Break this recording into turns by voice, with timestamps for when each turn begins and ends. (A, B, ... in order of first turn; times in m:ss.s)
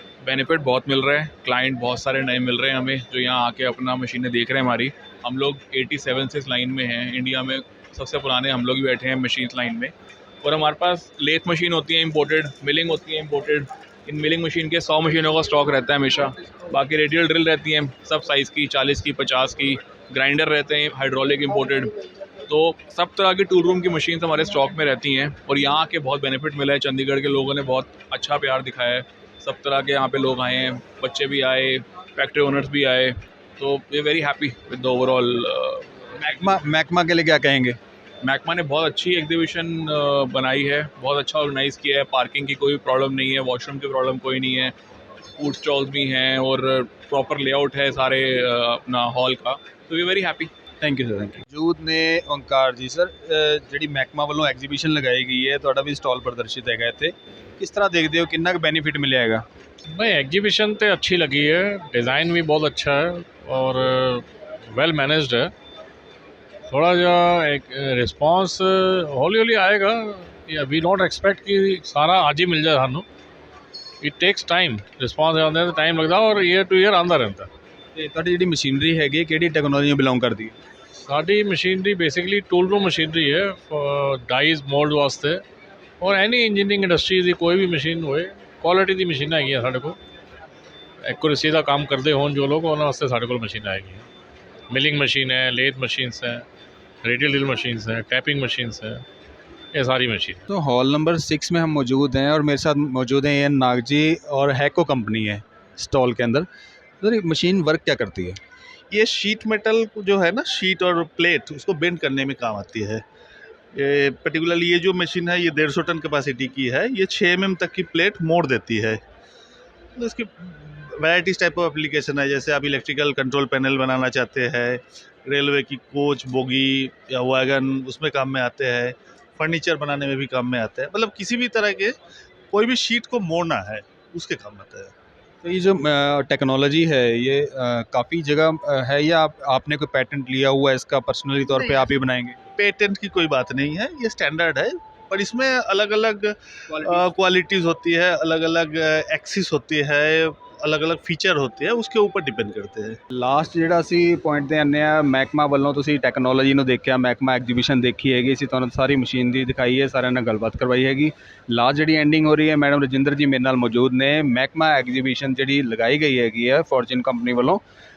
0:00.2-0:21.9 A
0:22.5-0:35.9 A
0:36.2-0:37.8 B
0:38.2-0:44.7 A
0:45.4-0:50.5 A
0:50.8-0:59.4 B
0:59.9-1:05.5 C
1:06.7-1:13.1 C
1:14.0-1:17.5 C
1:18.0-1:20.6 B
1:21.0-1:25.4 C
1:26.0-1:30.0 C
1:31.0-1:34.1 C
1:34.7-1:36.5 C
1:37.0-1:39.0 C
1:39.7-1:40.4 C
1:40.5-1:46.5 B
1:47.0-1:48.4 B
1:48.9-1:53.0 D
1:53.7-1:59.0 D
2:00.0-2:12.0 D
2:12.5-2:14.9 D
2:15.4-2:22.4 B
2:22.6-2:33.0 D
2:33.1-2:47.6 B